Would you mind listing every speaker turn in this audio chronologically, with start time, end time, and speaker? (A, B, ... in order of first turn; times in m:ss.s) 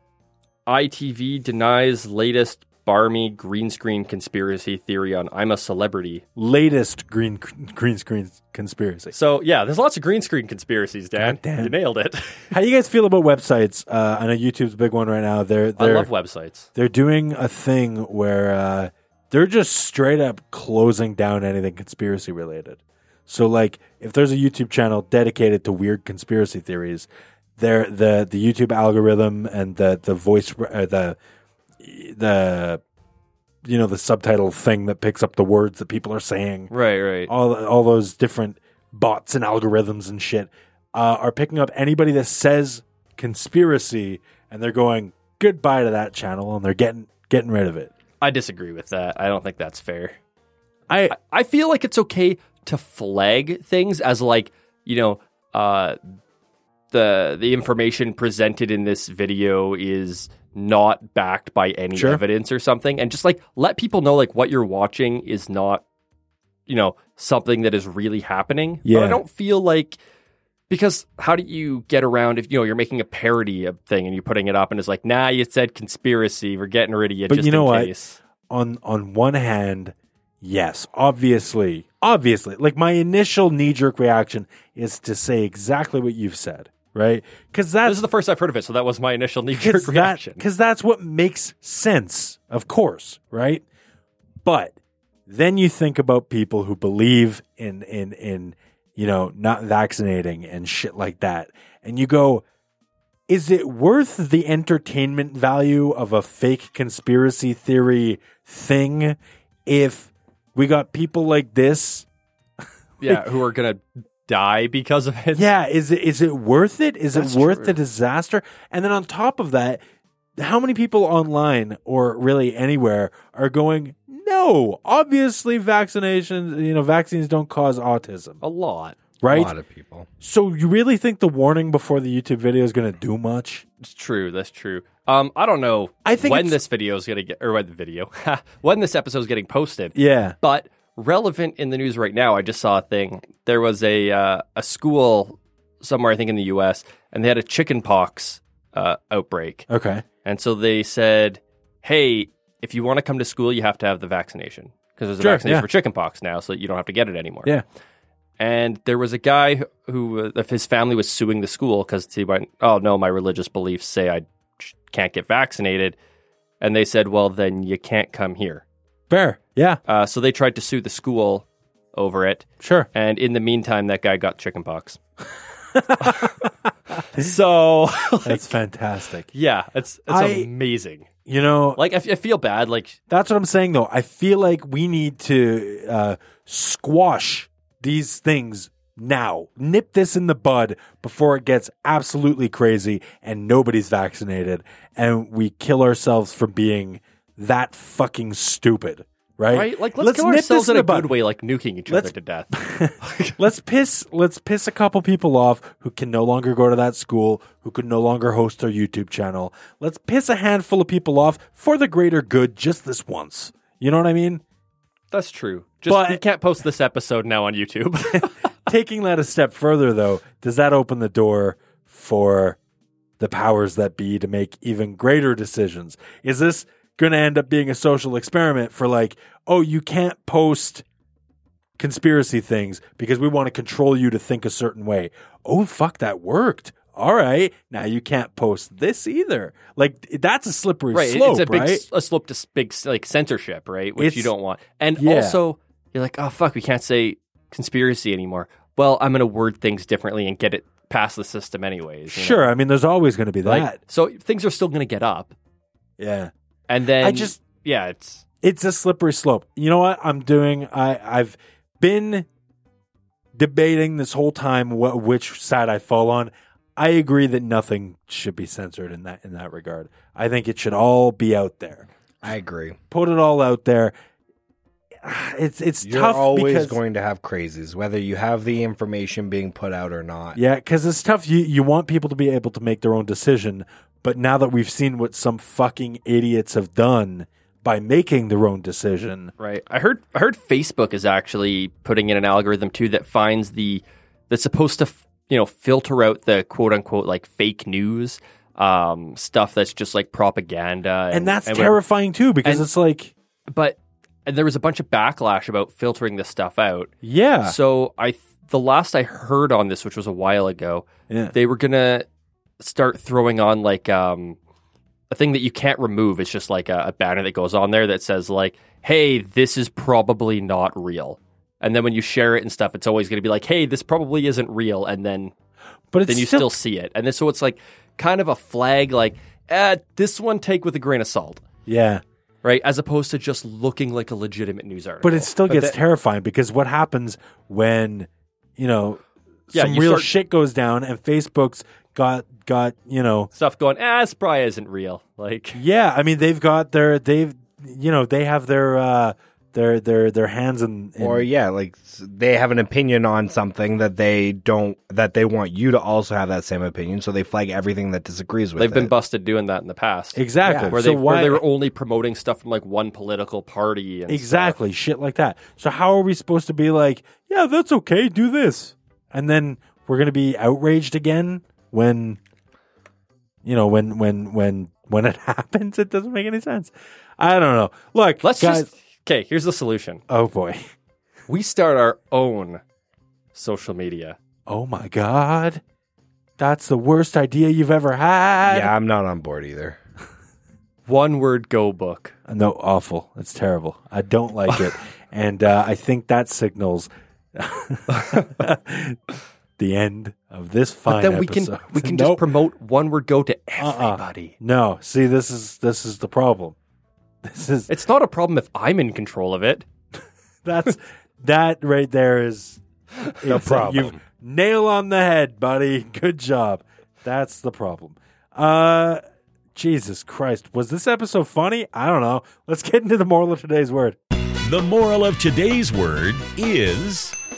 0:00.7-0:06.2 A
0:06.4-0:09.1 B
0:09.1-0:12.5 A
0:11.2-0:11.7 B
0:12.5-0:16.1 B
0:15.8-0:16.7 A
0:16.7-0:31.2 B
0:31.8-0:32.8 B
0:33.6-0:36.7 B
0:36.7-0:37.3 A
0:37.3-0:47.9 B
0:48.2-0:50.2 A
0:50.9-0:51.1 B
0:51.1-0:56.0 A
0:56.9-1:05.8 A
1:01.9-1:02.2 B
1:06.7-1:10.0 A
1:08.8-1:09.2 B
1:10.7-1:18.2 A
1:17.3-1:17.9 B
1:18.5-1:28.0 B
1:27.8-1:30.4 A
1:29.5-1:33.6 B
1:34.4-1:34.7 B
1:35.3-1:42.4 B
1:43.3-1:52.1 B
1:53.0-1:55.5 A
1:55.3-1:59.8 B
1:57.1-1:57.8 A
2:00.4-2:08.4 B
2:08.4-2:09.0 A
2:09.2-2:09.5 B
2:09.3-2:10.1 C
2:10.2-2:13.6 B
2:13.8-2:29.7 A
2:16.0-2:16.6 B
2:19.9-2:20.4 B
2:29.7-2:30.0 B
2:30.2-2:37.6 A
2:35.2-2:35.7 B
2:38.4-2:46.0 A
2:46.6-2:48.6 A
2:49.1-2:49.8 B
2:49.9-2:55.0 A
2:52.6-2:52.9 B
2:55.7-2:57.3 B
2:56.0-2:56.4 A
2:57.0-2:58.6 A
2:58.2-2:59.3 B
2:59.3-3:01.1 A
3:00.1-3:00.5 B
3:01.3-3:01.8 B
3:01.8-3:03.0 A
3:03.1-3:21.1 B
3:19.5-3:23.4 A
3:21.9-3:34.4 B
3:35.1-3:38.5 A
3:35.9-3:36.2 B
3:38.1-3:42.6 B
3:43.2-3:50.8 B
3:51.8-4:01.8 B
4:00.9-4:12.4 A
4:04.0-4:04.3 B
4:05.0-4:05.4 B
4:12.1-4:13.8 B
4:13.4-4:15.3 A
4:16.0-4:16.3 B
4:16.7-4:18.2 A
4:17.0-4:17.4 B
4:18.4-4:22.3 B
4:23.3-4:31.9 B
4:32.2-4:32.8 C
4:32.9-4:33.9 B
4:35.0-4:36.8 B
4:35.8-4:40.4 C
4:40.3-4:49.3 B
4:49.4-5:01.8 A
5:01.1-5:03.1 B
5:02.4-5:02.7 A
5:03.5-5:06.9 A
5:07.0-5:07.6 B
5:07.4-5:12.1 A
5:11.1-5:11.3 B
5:12.6-5:14.4 A
5:15.1-5:25.3 A
5:25.9-5:26.5 B
5:26.0-5:31.4 A
5:31.7-5:32.0 B
5:32.4-5:35.3 A
5:35.0-5:43.3 B
5:35.5-5:35.7 C
5:39.5-5:40.1 A
5:43.3-5:45.6 A
5:45.5-5:51.3 B
5:51.0-5:58.9 C
5:58.6-6:04.6 A
6:00.1-6:01.4 B
6:00.4-6:00.8 C
6:04.1-6:12.2 B
6:13.4-6:18.7 B
6:18.2-6:20.0 A
6:20.1-6:20.6 B
6:21.3-6:22.6 A
6:23.3-6:24.2 A
6:24.5-6:25.6 B
6:26.4-6:28.7 B
6:28.5-6:29.8 C
6:30.8-6:32.1 A
6:32.3-6:39.0 B
6:37.9-6:38.3 A
6:39.6-6:42.2 B
6:40.9-6:44.4 A
6:43.6-6:46.6 B
6:47.2-6:47.7 B
6:47.7-6:49.6 A
6:50.4-6:52.6 B
6:53.2-6:59.0 B
6:53.2-6:54.0 C
6:59.5-7:04.0 B
7:04.4-7:07.1 D